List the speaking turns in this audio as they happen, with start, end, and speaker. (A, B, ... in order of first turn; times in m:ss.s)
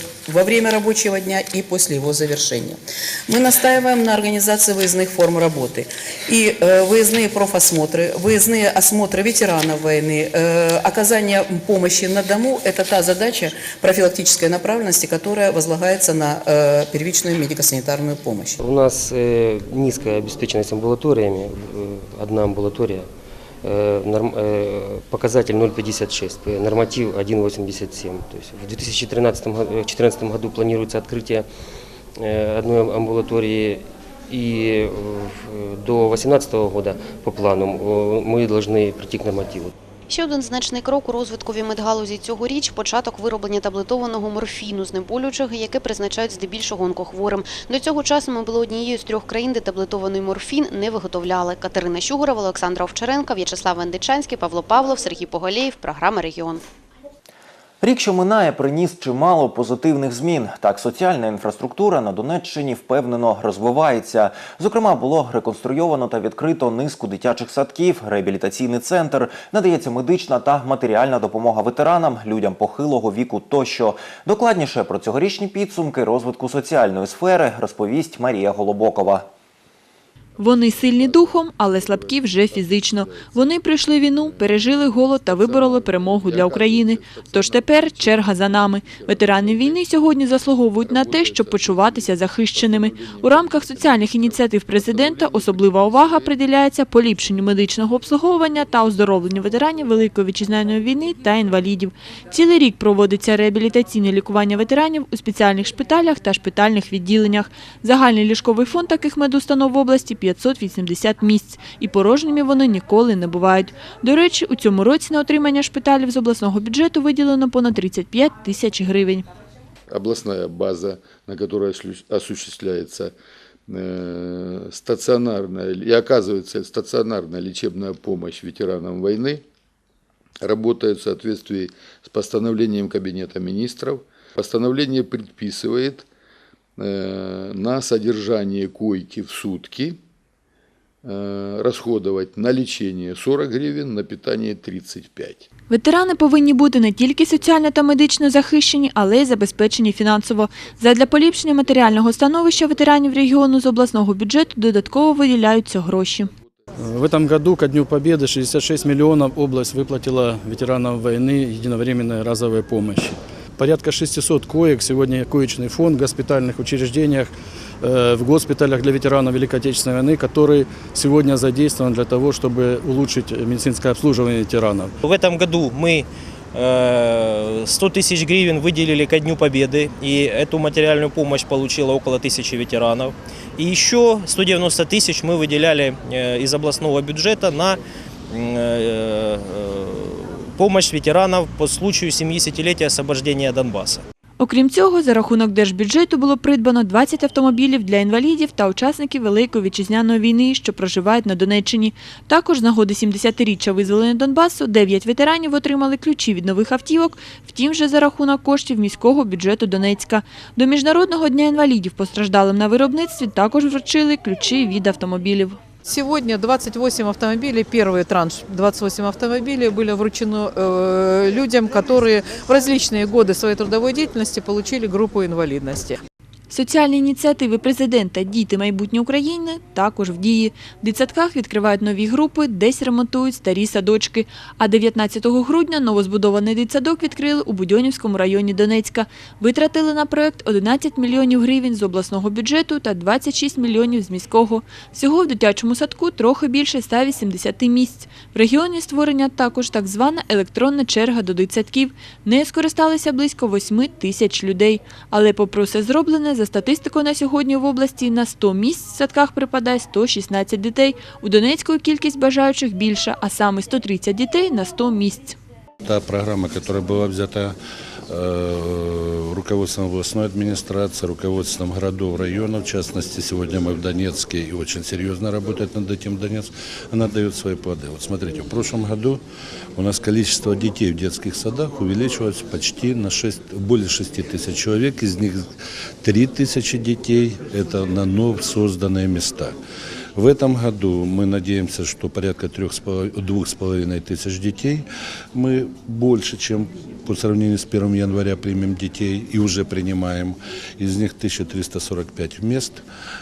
0:00.4-0:02.3 A
0:03.4-0:05.7 A
0:06.5-0:07.1 A
0:08.3-0:18.5 A
0:18.6-0:23.1 B
0:23.6-0:31.5 B
0:32.2-0:39.7 B
0:40.1-0:56.6 C
0:57.8-1:19.3 D
1:20.4-1:59.2 E
1:20.5-1:29.8 F
1:30.8-1:36.3 F
1:59.9-2:03.2 F
2:03.7-2:09.4 F
2:10.4-2:16.0 F
2:16.8-2:20.0 F
2:21.0-2:25.5 F
2:25.7-2:36.3 E
2:36.8-2:54.9 G
2:55.0-3:07.8 H
3:08.3-3:14.0 H
3:14.4-3:35.6 E
3:35.8-3:46.0 I
3:46.5-4:25.4 E
4:25.8-4:27.5 J
4:28.1-4:39.2 J
4:39.8-4:45.4 J
4:46.0-4:49.6 J
4:50.1-5:02.8 J